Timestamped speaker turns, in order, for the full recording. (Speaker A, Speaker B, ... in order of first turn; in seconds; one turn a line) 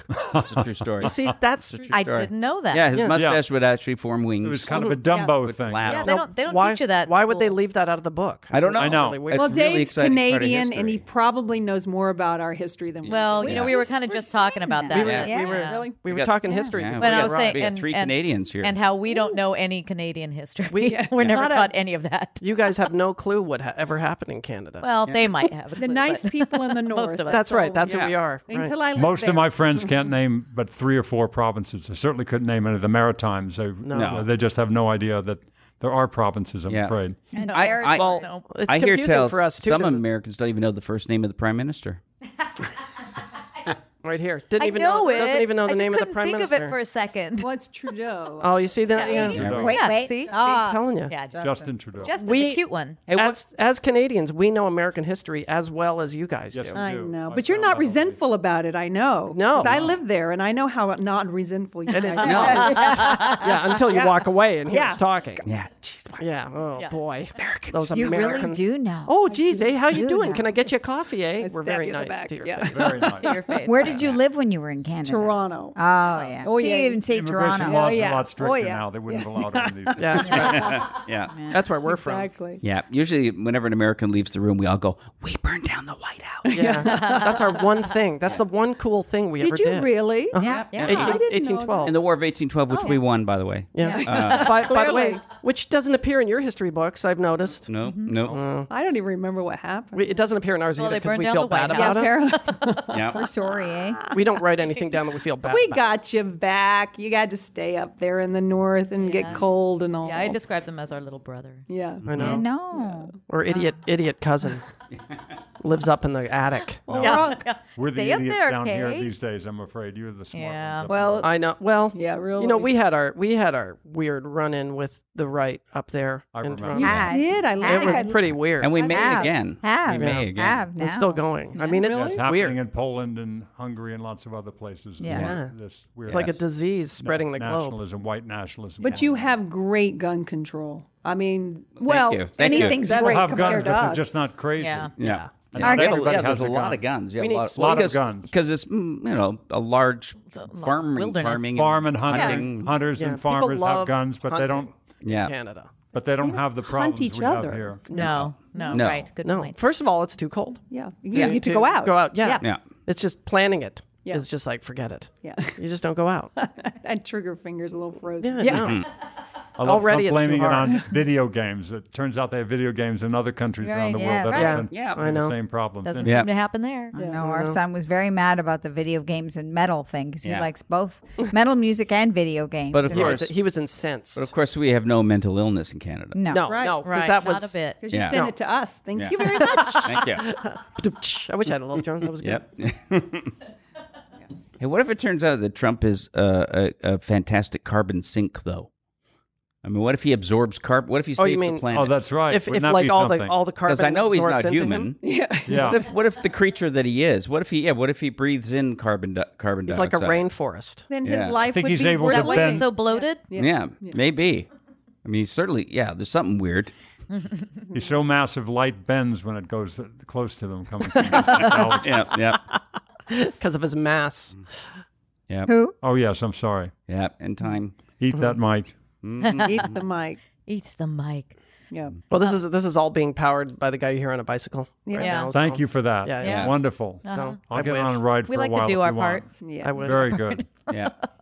Speaker A: 0.1-1.4
Speaker B: 0.2-1.3
Speaker C: 1.0-1.9
Speaker B: 1.9-6.2
Speaker D: 1.9-3.0
Speaker A: 3.1-3.4
Speaker A: 4.4-6.0
Speaker C: 4.7-5.0
Speaker E: 5.1-5.4
Speaker D: 5.9-7.6
Speaker C: 6.0-9.6
Speaker B: 8.5-11.0
Speaker A: 8.8-9.2
Speaker E: 9.3-13.7
Speaker B: 13.0-13.8
Speaker D: 13.1-15.9
Speaker F: 13.3-15.6
Speaker B: 14.9-15.3
Speaker C: 14.9-17.6
Speaker E: 15.4-16.1
Speaker B: 16.1-18.8
Speaker F: 16.5-16.7
Speaker D: 17.0-22.7
Speaker C: 20.7-21.0
Speaker E: 20.8-21.8
Speaker B: 21.2-21.4
Speaker C: 22.4-24.9
Speaker D: 24.8-27.6
Speaker E: 25.7-30.1
Speaker C: 27.3-28.8
Speaker B: 27.8-28.2
Speaker A: 28.9-37.2
Speaker C: 33.8-34.2
Speaker B: 33.9-34.2
Speaker B: 36.7-37.0
Speaker F: 37.3-38.3
Speaker D: 37.4-38.5
Speaker B: 37.5-38.1
Speaker C: 37.8-40.0
Speaker B: 38.6-42.0
Speaker C: 44.0-46.8
Speaker D: 44.6-47.5
Speaker E: 47.4-49.4
Speaker C: 48.4-49.5
Speaker F: 49.0-51.7
Speaker A: 49.3-49.8
Speaker B: 49.3-49.7
Speaker D: 49.6-50.3
Speaker C: 50.3-51.1
Speaker D: 51.1-53.0
Speaker A: 51.4-52.1
Speaker C: 52.1-56.8
Speaker B: 53.1-53.4
Speaker A: 56.5-58.2
Speaker E: 56.7-65.4
Speaker C: 59.3-59.9
Speaker B: 59.7-59.9
Speaker C: 61.9-65.4
Speaker B: 62.2-62.9
Speaker F: 62.3-63.0
Speaker D: 62.5-63.3
Speaker B: 65.4-66.2
Speaker C: 66.2-72.9
Speaker B: 67.3-68.2
Speaker F: 67.9-70.5
Speaker E: 71.4-73.7
Speaker A: 72.7-73.3
Speaker D: 73.2-74.2
Speaker F: 73.6-77.9
Speaker E: 75.0-75.8
Speaker E: 76.4-77.0
Speaker A: 77.1-80.5
Speaker E: 77.6-80.8
Speaker C: 80.0-80.8
Speaker B: 80.2-81.3
Speaker F: 81.3-81.6
Speaker C: 81.5-82.3
Speaker E: 81.8-82.6
Speaker B: 82.6-86.7
Speaker E: 86.4-87.6
Speaker C: 86.5-91.9
Speaker D: 86.8-87.3
Speaker E: 89.4-91.9
Speaker B: 90.4-91.2
Speaker F: 90.4-90.6
Speaker D: 90.7-91.1
Speaker B: 91.8-94.8
Speaker E: 92.7-93.0
Speaker C: 93.7-97.7
Speaker E: 93.8-95.3
Speaker B: 97.7-98.4
Speaker F: 97.8-98.2
Speaker C: 98.3-98.7
Speaker E: 98.7-100.3
Speaker C: 99.9-102.1
Speaker D: 100.7-102.7
Speaker E: 101.7-103.3
Speaker B: 102.9-103.2
Speaker F: 103.1-104.0
Speaker E: 103.8-104.4
Speaker C: 104.1-105.8
Speaker E: 105.4-110.4
Speaker D: 109.0-109.4
Speaker D: 110.0-111.7
Speaker E: 111.7-113.1
Speaker C: 112.1-112.5
Speaker F: 112.2-113.1
Speaker C: 113.3-114.6
Speaker C: 115.6-116.9
Speaker E: 116.9-117.4
Speaker A: 116.9-121.3
Speaker D: 116.9-119.1
Speaker D: 120.3-120.9
Speaker E: 120.9-122.8
Speaker C: 121.2-128.8
Speaker A: 126.3-127.1
Speaker E: 126.7-129.2
Speaker F: 126.8-128.2
Speaker B: 128.6-130.6
Speaker F: 128.8-131.8
Speaker C: 129.9-130.2
Speaker C: 130.8-132.6
Speaker E: 131.7-132.2
Speaker A: 131.9-136.4
Speaker F: 135.0-135.3
Speaker C: 135.1-135.5
Speaker C: 136.1-137.8
Speaker A: 137.0-139.3
Speaker E: 138.8-144.3
Speaker B: 141.8-142.8
Speaker C: 142.4-143.8
Speaker A: 142.9-144.9
Speaker D: 144.6-144.9
Speaker B: 145.0-152.8
Speaker C: 145.0-145.3
Speaker A: 145.5-146.8
Speaker F: 145.6-146.3
Speaker C: 147.2-147.9
Speaker A: 147.5-148.3
Speaker D: 150.3-151.7
Speaker A: 151.6-154.7
Speaker E: 152.1-152.4
Speaker C: 152.9-155.7
Speaker B: 155.0-155.3
Speaker A: 155.9-157.8
Speaker E: 156.2-157.8
Speaker C: 157.9-158.2
Speaker D: 157.9-159.6
Speaker B: 157.9-159.1
Speaker E: 158.5-158.8
Speaker C: 159.2-166.3
Speaker E: 160.7-162.4
Speaker E: 165.2-165.6
Speaker E: 166.3-168.7
Speaker C: 168.2-168.8
Speaker D: 168.4-168.8
Speaker B: 168.6-168.9
Speaker A: 169.6-176.2
Speaker C: 169.6-170.8
Speaker D: 173.6-174.7
Speaker F: 173.9-174.4
Speaker C: 174.3-175.3
Speaker B: 174.7-175.0
Speaker D: 175.8-176.9
Speaker B: 176.0-176.3
Speaker F: 176.9-183.2
Speaker E: 176.9-177.2
Speaker C: 177.2-177.6
Speaker B: 182.7-183.3
Speaker C: 182.9-184.3
Speaker B: 184.2-186.2
Speaker F: 186.1-186.6
Speaker C: 186.3-188.3
Speaker E: 186.4-186.9
Speaker D: 186.8-187.9
Speaker E: 187.8-190.1
Speaker B: 187.9-188.3
Speaker B: 188.9-190.2
Speaker C: 189.2-192.4
Speaker B: 192.2-193.3
Speaker B: 194.6-198.7
Speaker B: 199.6-202.0
Speaker C: 201.2-201.7
Speaker A: 201.7-203.3
Speaker C: 202.2-204.9
Speaker B: 203.7-205.0
Speaker E: 205.0-205.9
Speaker A: 205.4-205.8
Speaker B: 205.7-210.2
Speaker C: 209.7-210.9
Speaker E: 210.9-214.0
Speaker B: 211.0-211.4
Speaker A: 211.4-212.7
Speaker D: 212.1-213.3
Speaker B: 213.3-214.5
Speaker B: 215.0-216.7
Speaker A: 217.7-222.1
Speaker C: 220.9-221.7
Speaker B: 221.1-222.4
Speaker C: 223.1-224.6
Speaker F: 225.5-225.7
Speaker A: 225.8-226.7
Speaker B: 226.9-227.8
Speaker A: 228.0-228.8
Speaker B: 229.0-229.8
Speaker D: 229.2-229.7
Speaker E: 229.4-230.2
Speaker D: 230.4-231.3
Speaker E: 231.7-232.0
Speaker C: 232.1-236.5
Speaker E: 234.8-235.3
Speaker D: 235.0-235.3
Speaker A: 235.3-239.3
Speaker D: 236.2-236.5
Speaker B: 236.2-236.6
Speaker D: 237.0-237.4
Speaker C: 237.1-238.0
Speaker D: 238.2-239.3
Speaker E: 239.4-240.2
Speaker C: 239.6-240.2
Speaker A: 239.8-240.4
Speaker D: 240.0-241.1
Speaker B: 240.7-240.9